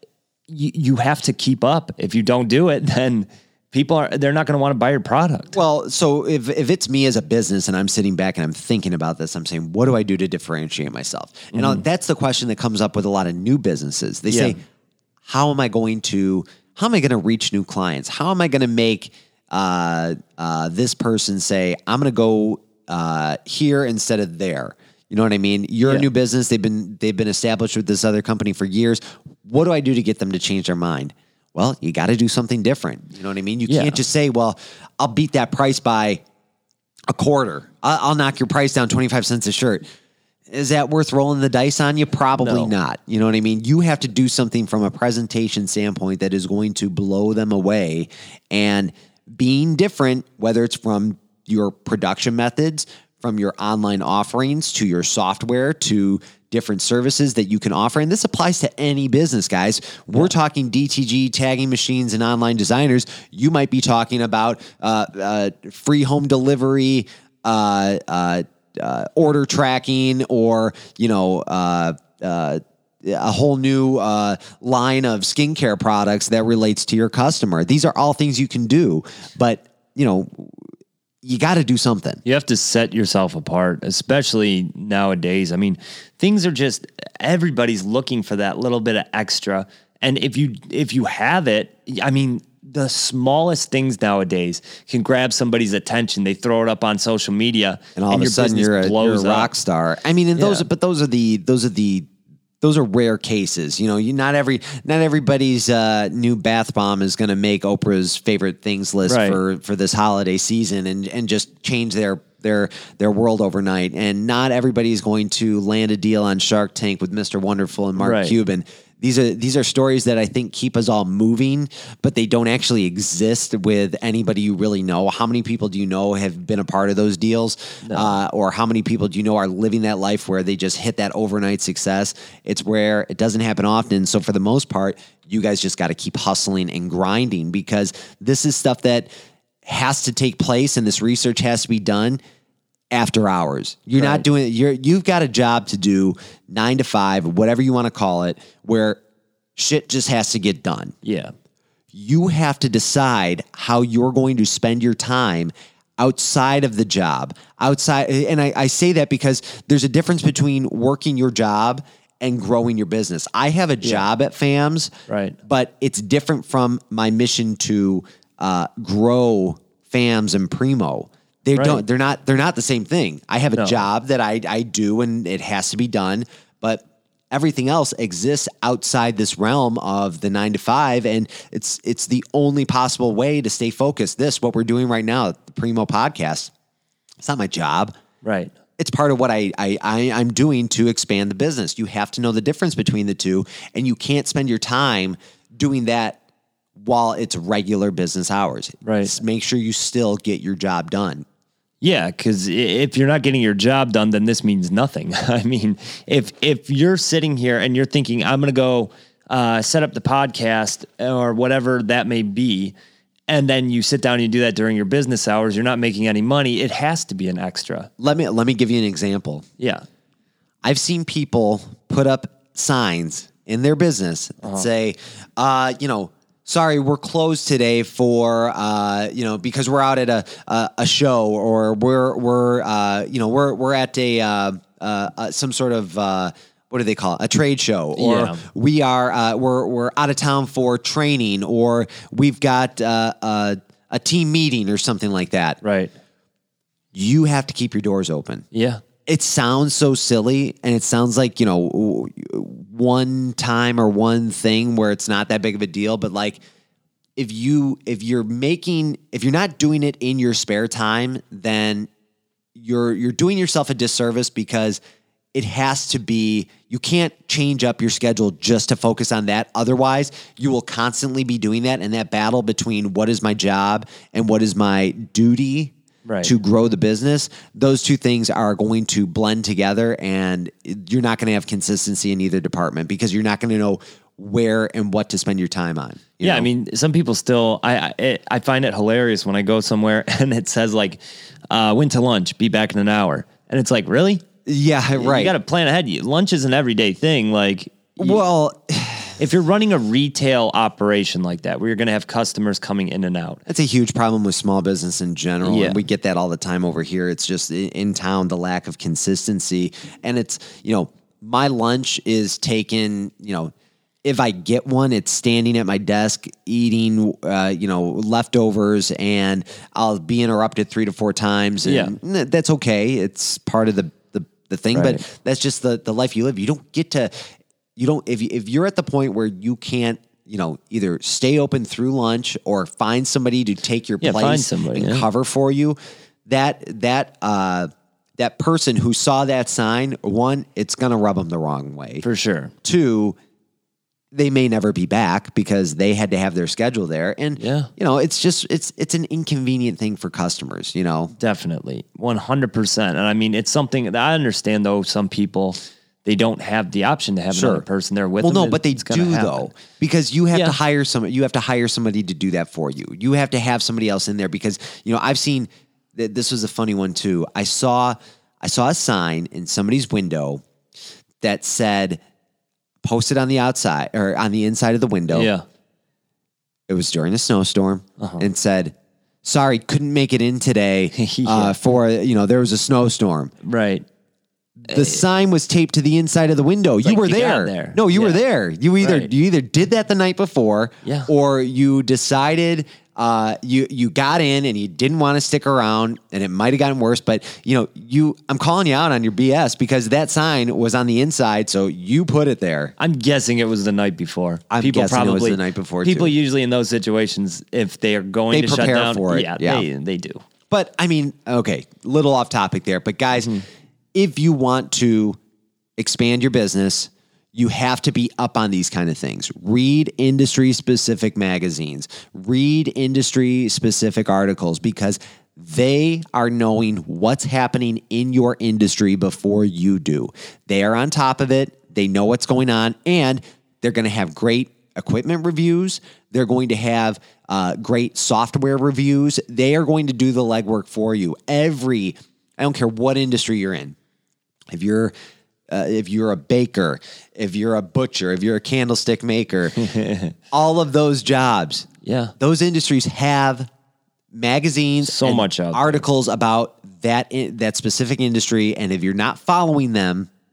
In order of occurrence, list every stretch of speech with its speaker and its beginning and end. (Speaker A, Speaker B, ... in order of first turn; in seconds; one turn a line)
Speaker A: 0.5-5.6
Speaker B: 5.5-14.6
Speaker A: 11.5-11.8
Speaker A: 14.3-14.5
Speaker B: 15.2-36.2
Speaker A: 33.7-34.0
Speaker B: 37.1-39.8
Speaker B: 40.5-80.6
Speaker A: 42.4-42.7
Speaker B: 81.2-82.2
Speaker A: 82.2-99.5
Speaker B: 98.0-102.1
Speaker A: 100.4-100.7
Speaker B: 102.6-139.1
Speaker A: 109.1-109.4
Speaker A: 118.0-118.4
Speaker A: 127.8-128.1
Speaker B: 139.6-142.2
Speaker B: 142.9-149.0
Speaker A: 143.9-144.2
Speaker B: 149.6-150.9
Speaker A: 151.0-151.3
Speaker B: 151.9-164.9
Speaker A: 165.1-165.3
Speaker B: 165.4-186.5
Speaker A: 171.6-171.8
Speaker A: 173.6-173.8
Speaker B: 187.2-187.9
Speaker A: 188.2-188.5
Speaker B: 188.8-196.2
Speaker B: 196.8-201.2
Speaker A: 198.8-199.1
Speaker A: 201.8-212.7
Speaker A: 213.3-217.9
Speaker B: 218.0-219.4
Speaker A: 219.6-219.8
Speaker B: 220.6-245.6
Speaker A: 237.9-238.4
Speaker A: 245.6-245.9
Speaker B: 246.9-248.4
Speaker A: 248.5-248.8
Speaker B: 249.1-256.4
Speaker B: 257.2-261.9
Speaker B: 262.6-264.8
Speaker B: 265.3-286.5
Speaker A: 276.0-276.3
Speaker A: 286.2-294.2
Speaker B: 294.4-295.3
Speaker A: 295.0-298.2
Speaker B: 298.0-299.2
Speaker A: 299.2-303.4
Speaker B: 303.5-313.5
Speaker A: 305.4-305.8
Speaker B: 314.0-342.0
Speaker A: 321.6-321.9
Speaker A: 324.7-325.0
Speaker A: 334.0-335.1
Speaker A: 342.0-342.5
Speaker B: 342.6-343.1
Speaker B: 344.1-351.1
Speaker A: 347.4-347.7
Speaker A: 351.2-359.5
Speaker B: 357.3-357.6
Speaker B: 358.2-370.4
Speaker B: 371.2-372.0
Speaker B: 372.8-375.3
Speaker A: 375.1-375.4
Speaker B: 376.7-383.3
Speaker A: 378.0-378.2
Speaker A: 380.9-381.5
Speaker A: 383.4-383.9
Speaker B: 384.6-402.7
Speaker A: 384.7-385.0
Speaker A: 386.8-388.2
Speaker A: 388.8-389.1
Speaker A: 390.8-391.1
Speaker A: 402.8-410.2
Speaker B: 404.5-406.1
Speaker B: 408.3-409.6
Speaker B: 410.5-413.4
Speaker B: 413.9-415.2
Speaker B: 415.8-443.8
Speaker B: 444.5-444.9
Speaker B: 445.5-449.7
Speaker A: 449.6-450.1
Speaker B: 450.3-453.5
Speaker A: 451.8-452.1
Speaker B: 454.1-460.1
Speaker A: 454.8-455.8